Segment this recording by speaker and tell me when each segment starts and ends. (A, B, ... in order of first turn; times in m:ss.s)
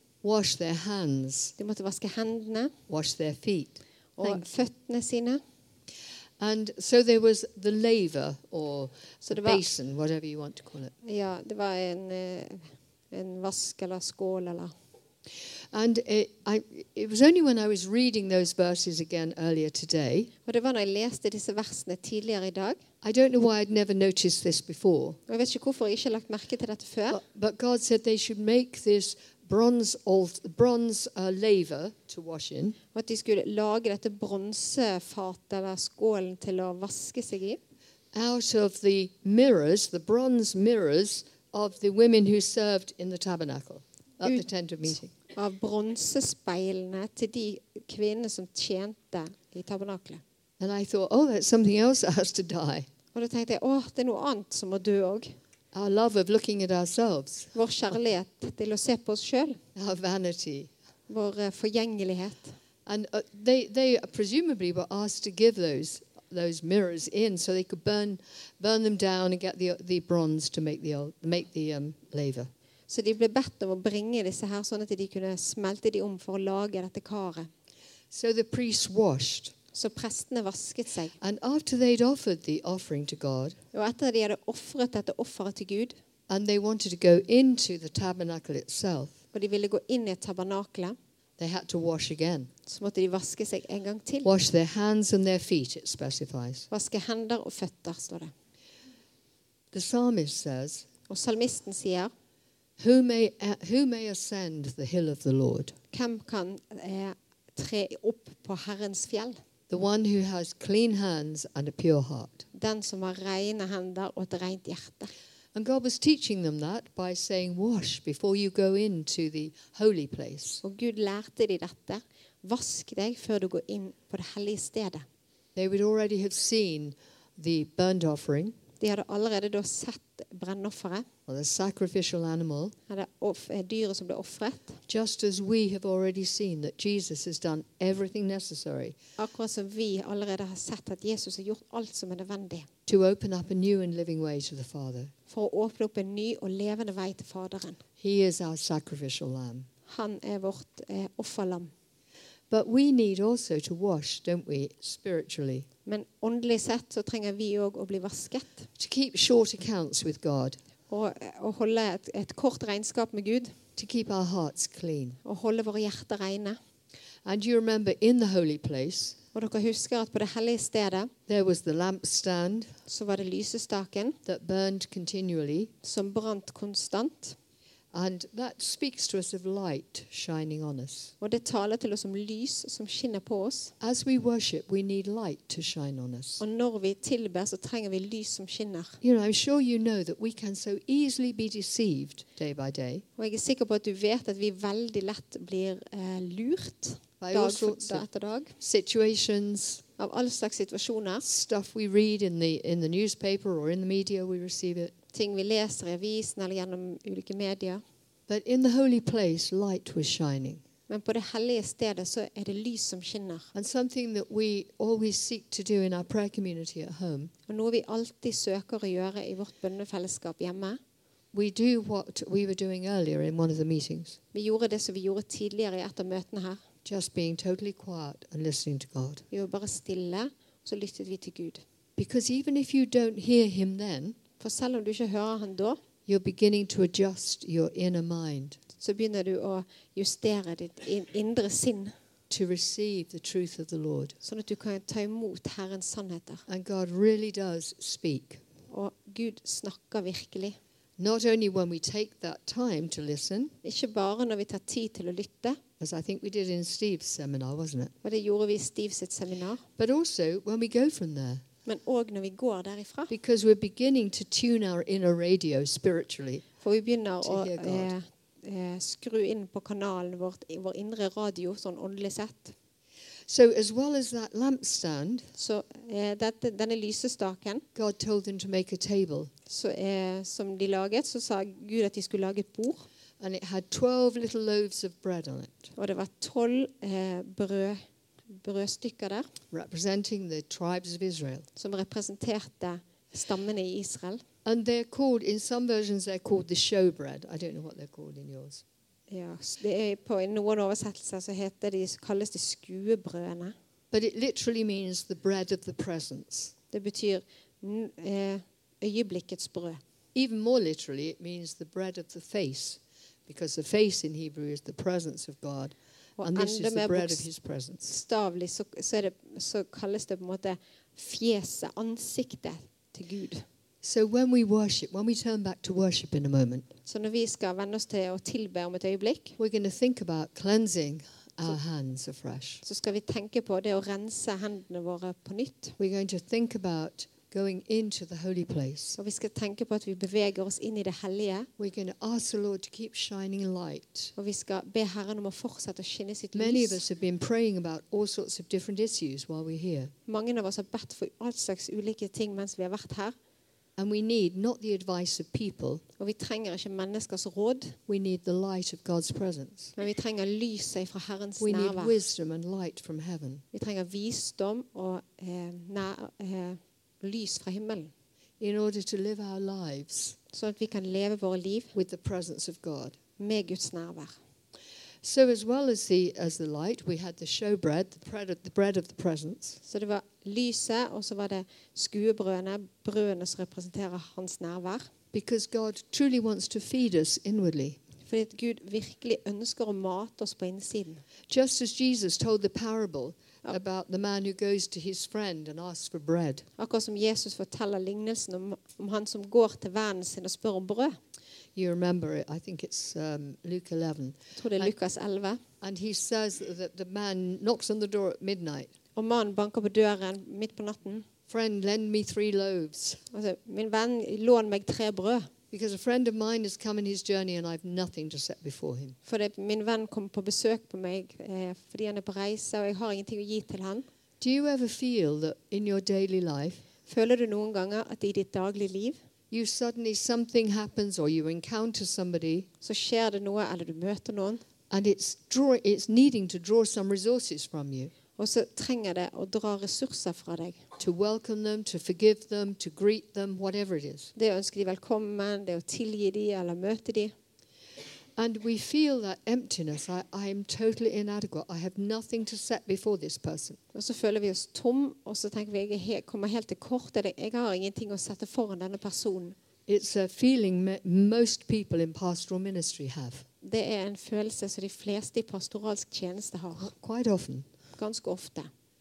0:00.2-0:01.5 A
0:01.6-0:02.7 B
0:02.9-0:04.4 A
0:04.2-0:05.4 B
0:06.4-0:10.9 A
0:09.3-0:09.6 B
0:11.0-0:14.7 B
0:15.7-0:20.3 A
0:20.4-0:22.8 B
0:23.0-0:25.2 A
0:25.3-0:27.2 B
0:27.1-0:32.8 A
0:32.9-0:37.6 B
0:38.1-0:45.1 A
0:45.3-0:50.2 B
0:50.6-0:52.9 A
0:53.1-0:55.4 B
0:55.7-0:57.5 A
0:57.5-0:59.6 B
0:59.7-1:00.7 A
1:01.1-1:02.5 B
1:02.8-1:12.5 A
1:12.9-1:17.5 B
1:18.1-1:19.5 A
1:19.7-1:21.2 B
1:21.2-1:23.6 A
1:23.7-1:25.9 B
1:26.3-1:29.2 A
1:29.3-1:31.0 B
1:31.4-1:32.5 A
1:32.6-1:34.3 B
1:34.2-1:36.7 A
1:36.7-1:38.3 B
1:39.7-1:40.8 A
1:41.1-1:42.1 B
1:42.8-1:45.8 A
1:45.9-1:49.4 B
1:49.7-1:52.4 A
1:52.5-1:55.1 B
1:55.5-2:00.6 A
2:00.6-2:05.0 B
2:05.6-2:08.6 A
2:08.8-2:11.1 B
2:11.3-2:12.7 A
2:12.9-2:14.8 B
2:14.9-2:18.9 A
2:19.2-2:22.7 B
2:22.8-2:25.1 A
2:25.3-2:27.8 B
2:28.0-2:29.7 A
2:29.9-2:31.7 B
2:32.5-2:35.7 A
2:35.8-2:38.6 B
2:38.8-2:40.6 A
2:40.9-2:43.6 B
2:43.8-2:45.2 A
2:45.2-2:46.6 B
2:47.2-2:49.2 A
2:49.3-2:51.1 B
2:51.3-2:52.7 A
2:52.9-2:54.2 B
2:54.2-2:55.7 A
2:55.8-2:57.4 B
2:57.9-3:01.1 A
3:01.2-3:03.7 B
3:03.8-3:06.4 A
3:06.4-3:09.0 B
3:09.0-3:13.0 A
3:13.2-3:18.6 B
3:17.2-3:18.0 A
3:18.6-3:19.8 A
3:20.0-3:21.2 B
3:21.2-3:24.9 A
3:25.1-3:27.8 B
3:28.3-3:30.6 A
3:30.9-3:33.5 B
3:33.5-3:37.3 A
3:37.5-3:40.8 B
3:41.3-3:44.2 A
3:44.3-3:46.6 B
3:46.8-3:49.2 A
3:49.3-3:51.6 B
3:52.0-3:54.2 A
3:54.4-3:55.8 B
3:56.0-3:58.6 A
3:58.8-4:01.9 B
4:02.3-4:04.2 A
4:04.2-4:06.4 B
4:06.5-4:08.4 A
4:08.7-4:10.6 B
4:11.0-4:13.5 A
4:13.6-4:15.6 B
4:15.8-4:17.9 A
4:18.0-4:19.6 B
4:19.8-4:21.4 A
4:21.6-4:23.1 B
4:23.1-4:26.4 A
4:26.6-4:32.5 B
4:27.2-4:27.9 A
4:33.3-4:35.3 A
4:35.4-4:37.6 B
4:37.7-4:39.3 A
4:39.5-4:42.8 B
4:43.2-4:45.7 A
4:45.8-4:49.3 B
4:49.5-4:51.5 A
4:51.6-4:54.2 B
4:54.4-4:58.6 A
4:59.1-5:03.5 B
5:03.9-5:06.5 A
5:06.7-5:09.8 B
5:10.1-5:18.0 A
5:16.2-5:17.2 B
5:17.9-5:23.4 B
5:23.8-5:26.7 A
5:26.8-5:29.4 B
5:29.4-5:32.6 A
5:32.6-5:35.8 B
5:35.8-5:39.0 A
5:39.0-5:41.5 B
5:41.6-5:44.1 A
5:44.2-5:46.8 B
5:46.3-5:49.9 A
5:50.1-5:53.1 B
5:53.8-5:55.8 A
5:56.0-5:57.8 B
5:57.9-5:59.7 A
5:59.8-6:02.0 B
6:01.4-6:03.4 A
6:03.5-6:07.9 B
6:08.4-6:10.2 A
6:10.3-6:11.7 B
6:11.7-6:13.0 A
6:13.2-6:14.2 B
6:15.0-6:19.6 A
6:19.6-6:24.9 B
6:25.1-6:27.8 A
6:28.0-6:31.0 B
6:31.3-6:36.5 A
6:36.6-6:41.0 B
6:41.6-6:44.7 A
6:44.4-6:45.4 B
6:45.6-6:48.7 A
6:48.9-6:51.0 B
6:51.3-6:53.0 A
6:53.1-6:55.3 B
6:55.5-6:59.0 A
6:59.0-7:03.9 B
7:04.2-7:06.6 A
7:06.8-7:09.0 B
7:09.3-7:12.5 A
7:12.6-7:14.4 B
7:14.7-7:17.9 A
7:18.2-7:20.6 B
7:20.8-7:24.1 A
7:24.1-7:27.1 B
7:28.2-7:33.6 A
7:33.7-7:39.4 B
7:39.7-7:43.3 A
7:43.4-7:46.7 B
7:46.6-7:47.5 A
7:47.8-7:48.5 B